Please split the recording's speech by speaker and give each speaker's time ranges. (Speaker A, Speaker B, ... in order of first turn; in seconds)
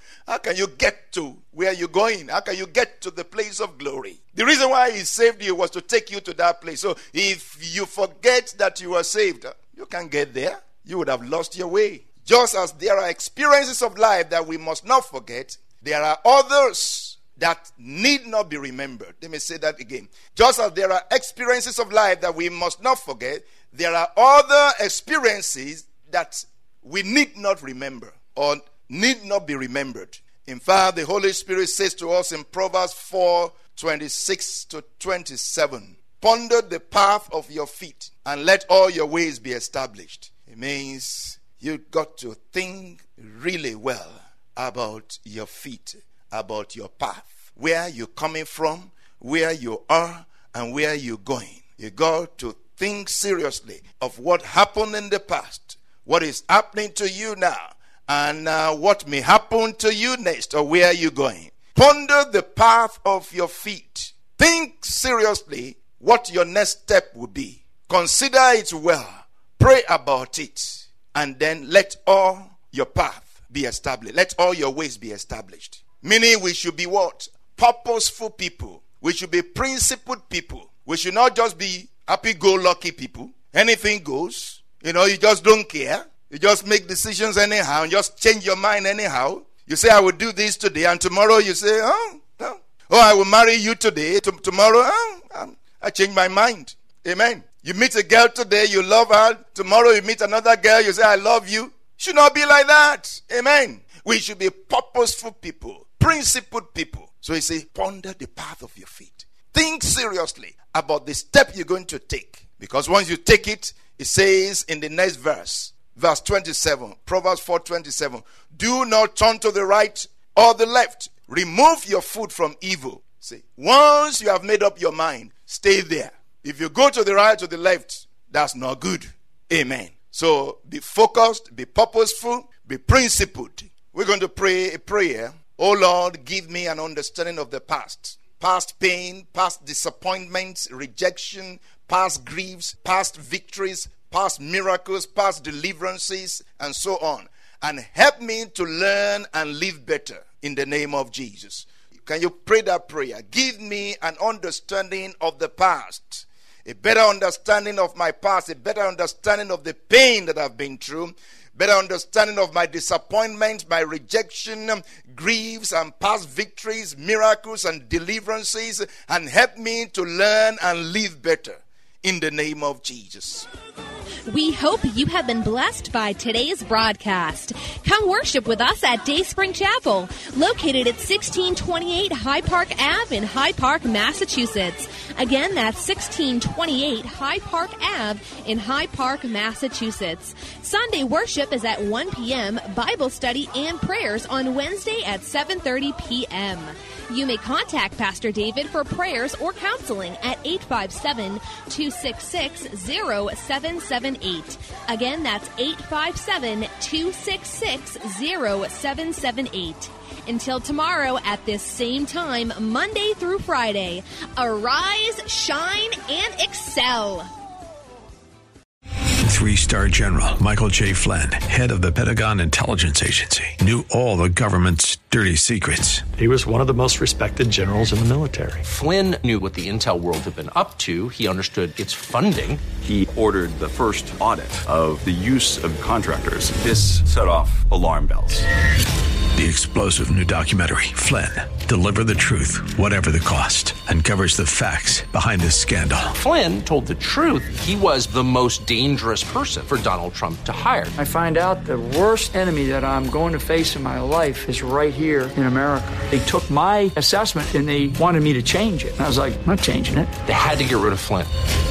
Speaker A: 0.3-173.5
Speaker B: 174.3-217.3
Speaker C: 219.2-226.2, 239.3-246.1
Speaker D: 226.1-228.6
Speaker E: 228.6-232.6, 246.1-250.9, 260.2-261.3
Speaker F: 232.8-238.4
Speaker G: 251.0-260.0